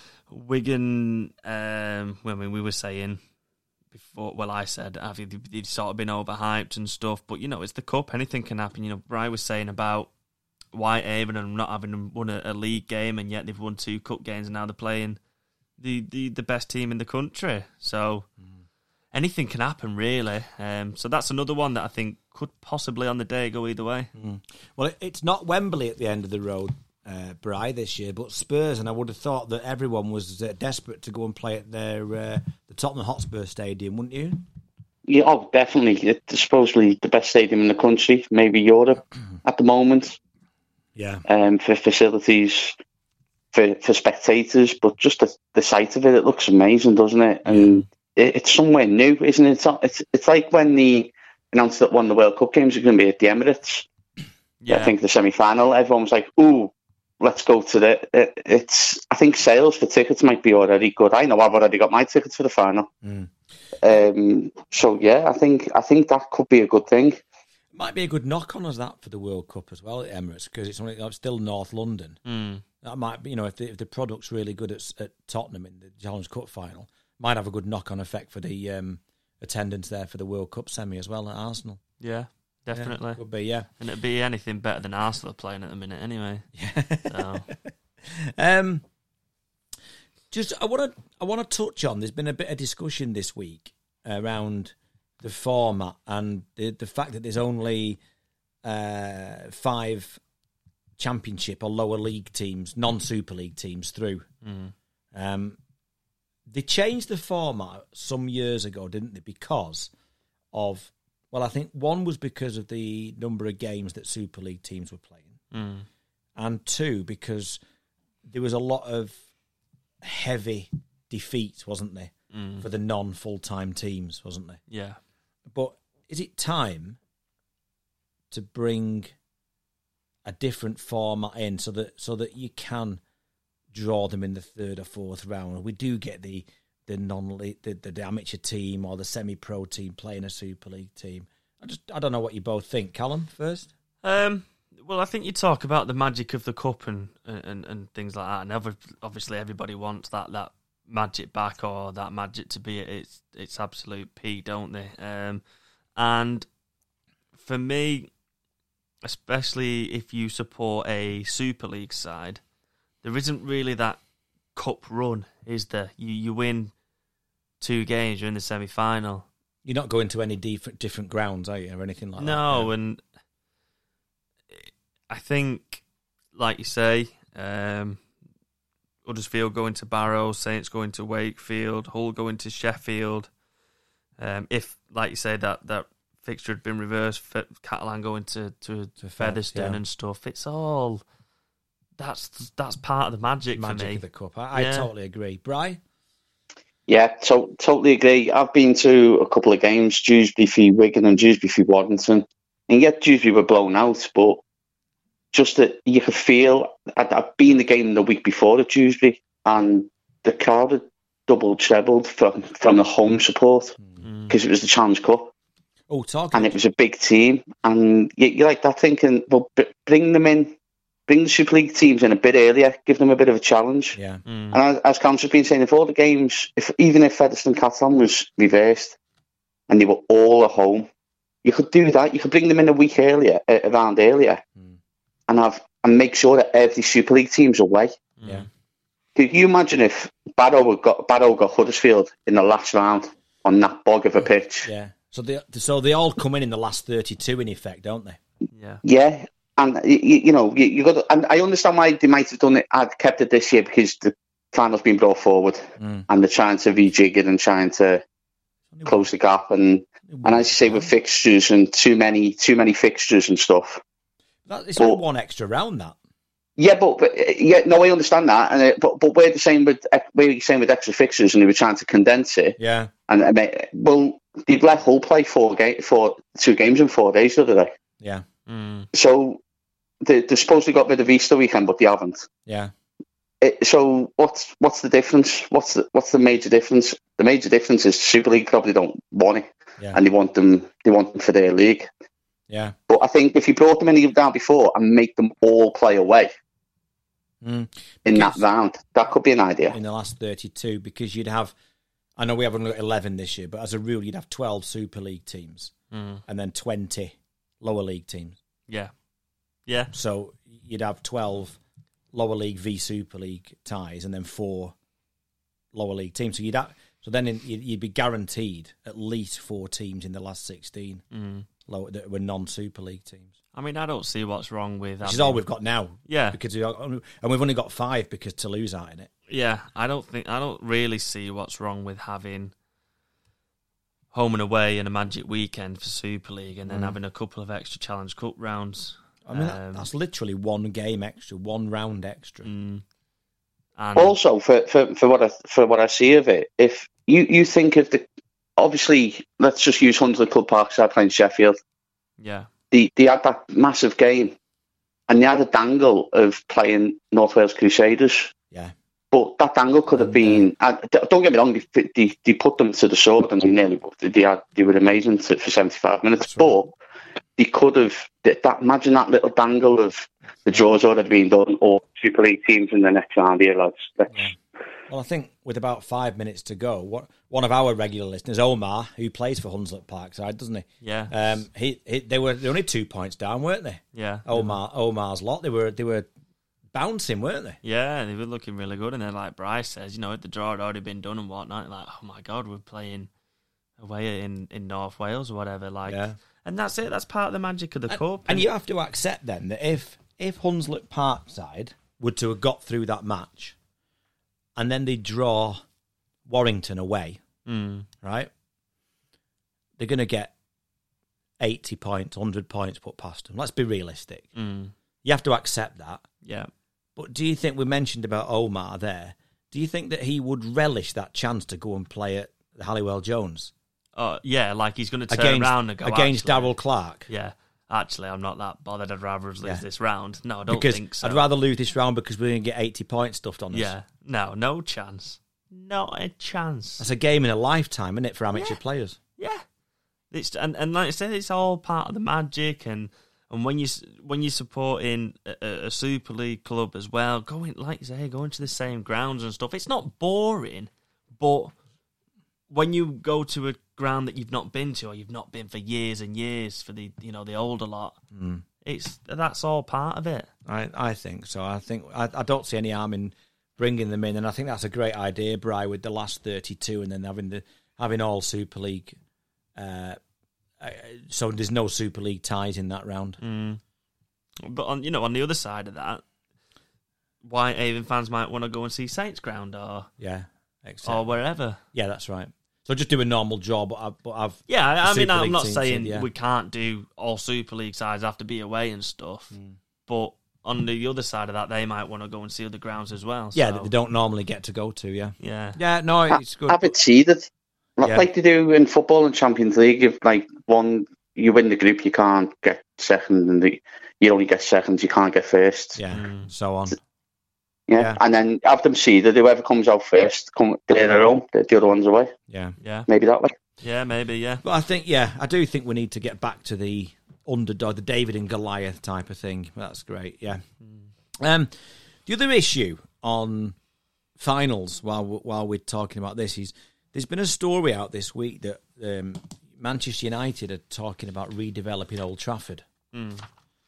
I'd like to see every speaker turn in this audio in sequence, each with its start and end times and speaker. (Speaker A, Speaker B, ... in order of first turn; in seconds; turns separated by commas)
Speaker A: 0.3-3.2, Speaker A: 3.9-10.1, Speaker A: 10.7-15.2, Speaker A: 15.8-18.3, Speaker A: 19.1-24.1, Speaker B: 24.1-34.4, Speaker C: 35.1-40.2, Speaker B: 40.9-41.2, Speaker C: 41.3-42.8, Speaker C: 43.5-53.9, Speaker A: 47.5-47.8, Speaker A: 54.6-54.9, Speaker C: 54.7-62.9, Speaker B: 63.0-63.3, Speaker C: 63.8-67.2, Speaker B: 67.7-72.2, Speaker A: 72.2-72.6, Speaker B: 72.8-81.8, Speaker A: 82.0-83.2, Speaker B: 82.7-83.7, Speaker A: 83.8-86.5, Speaker B: 86.5-88.8, Speaker A: 87.1-87.5, Speaker B: 90.3-98.0, Speaker B: 98.6-100.2, Speaker B: 101.0-104.3, Speaker A: 104.4-104.7, Speaker B: 105.1-105.6, Speaker B: 106.5-109.9, Speaker B: 110.5-115.4, Speaker A: 115.5-115.8, Speaker B: 116.3-117.6, Speaker B: 118.2-119.2, Speaker B: 120.0-124.6, Speaker A: 122.3-122.7, Speaker A: 124.7-125.0, Speaker B: 125.5-127.0, Speaker B: 128.3-129.1, Speaker B: 130.2-133.0, Speaker B: 133.7-143.7, Speaker A: 144.0-155.4, Speaker A: 156.0-156.5, Speaker A: 157.4-158.1, Speaker A: 159.0-162.4, Speaker A: 163.0-164.0, Speaker A: 164.5-166.7, Speaker A: 167.6-169.3, Speaker B: 169.6-172.7, Speaker A: 172.2-173.0, Speaker A: 174.5-175.8, Speaker A: 176.3-178.0, Speaker A: 179.0-183.3, Speaker A: 184.2-191.0, Speaker B: 189.0-189.8, Speaker A: 192.0-194.9, Speaker B: 193.5-195.8, Speaker C: 196.9-204.4, Speaker C: 205.3-213.8, Speaker A: 214.0-214.3, Speaker C: 214.3-215.3, Speaker B: 215.9-216.6, Speaker C: 216.3-220.5, Speaker C: 221.1-224.0, Speaker B: 223.9-224.2, Speaker A: 224.2-224.6, Speaker C: 224.5-229.0, Speaker C: 229.7-230.9, Speaker C: 231.4-234.4, Speaker C: 235.3-237.9, Speaker A: 238.2-238.5, Speaker C: 239.1-244.7, Speaker B: 244.6-248.2, Speaker A: 248.5-248.8, Speaker C: 248.8-258.0, Speaker B: 255.8-256.1, Speaker B: 258.7-259.0, Speaker C: 258.9-263.8, Speaker B: 260.1-260.9, Speaker B: 264.5-265.9, Speaker C: 266.6-272.6, Speaker B: 272.6-272.9, Speaker C: 273.1-277.7, Speaker B: 278.0-278.2, Speaker A: 278.5-278.9, Speaker C: 278.9-279.4, Speaker C: 280.0-282.3, Speaker B: 282.4-282.7, Speaker C: 283.4-291.9, Speaker B: 292.5-292.7, Speaker C: 292.9-296.3, Speaker B: 297.4-298.4, Speaker C: 298.1-299.7, Speaker B: 299.7-301.5, Speaker B: 302.2-305.7, Speaker A: 305.9-306.2, Speaker B: 306.3-308.4, Speaker A: 309.7-309.9, Speaker B: 309.9-311.6, Speaker B: 312.1-314.7, Speaker B: 315.7-321.0, Speaker A: 321.1-321.4, Speaker B: 321.6-323.3, Speaker A: 323.5-325.4, Speaker B: 325.0-329.1, Speaker A: 326.1-326.4, Speaker A: 329.3-332.5, Speaker A: 334.1-339.9, Speaker B: 336.7-337.0, Speaker B: 339.2-342.5, Speaker A: 342.4-342.8, Speaker A: 343.8-344.2, Speaker C: 343.9-348.0, Speaker C: 348.6-351.6, Speaker A: 352.2-352.5, Speaker C: 352.7-354.3, Speaker C: 355.1-358.3, Speaker C: 359.1-366.7, Speaker B: 359.9-360.5, Speaker B: 366.2-366.5, Speaker C: 367.4-374.3, Speaker B: 374.9-386.1, Speaker A: 380.8-381.1, Speaker A: 383.9-384.6, Speaker B: 386.7-387.6, Speaker A: 387.6-393.1, Speaker A: 393.8-398.5, Speaker B: 395.9-396.1, Speaker B: 397.9-403.6, Speaker B: 404.6-405.6, Speaker B: 406.2-407.2, Speaker A: 407.4-407.9, Speaker B: 408.0-408.3, Speaker B: 409.8-410.3, Speaker B: 411.4-414.3, Speaker A: 414.4-414.7, Speaker B: 415.0-416.0, Speaker A: 416.2-416.5, Speaker B: 417.0-423.5, Speaker A: 423.9-426.5, Speaker B: 425.1-427.1, Speaker A: 427.1-431.3, Speaker B: 430.5-433.7, Speaker A: 433.5-436.8, Speaker B: 436.8-439.0, Speaker A: 439.2-439.4, Speaker A: 440.1-451.5, Speaker A: 452.5-458.0, Speaker B: 458.1-458.4, Speaker A: 458.6-460.3, Speaker B: 460.4-469.0, Speaker B: 469.6-470.0, Speaker B: 470.6-473.2, Speaker A: 473.2-473.6, Speaker A: 474.4-476.0, Speaker A: 477.2-479.9, Speaker B: 480.0-481.0, Speaker A: 480.8-481.6, Speaker B: 481.7-486.1, Speaker A: 484.5-489.3, Speaker A: 489.9-493.7, Speaker B: 493.3-496.7, Speaker A: 495.2-495.6, Speaker C: 496.5-505.8, Speaker B: 505.8-506.8, Speaker A: 505.9-506.3, Speaker C: 507.7-512.1, Speaker B: 512.3-512.5, Speaker A: 512.6-512.9, Speaker C: 512.9-513.4, Speaker A: 513.6-514.4, Speaker B: 514.4-520.4, Speaker B: 521.2-521.5, Speaker B: 522.0-523.5, Speaker B: 524.2-532.6, Speaker A: 532.9-533.2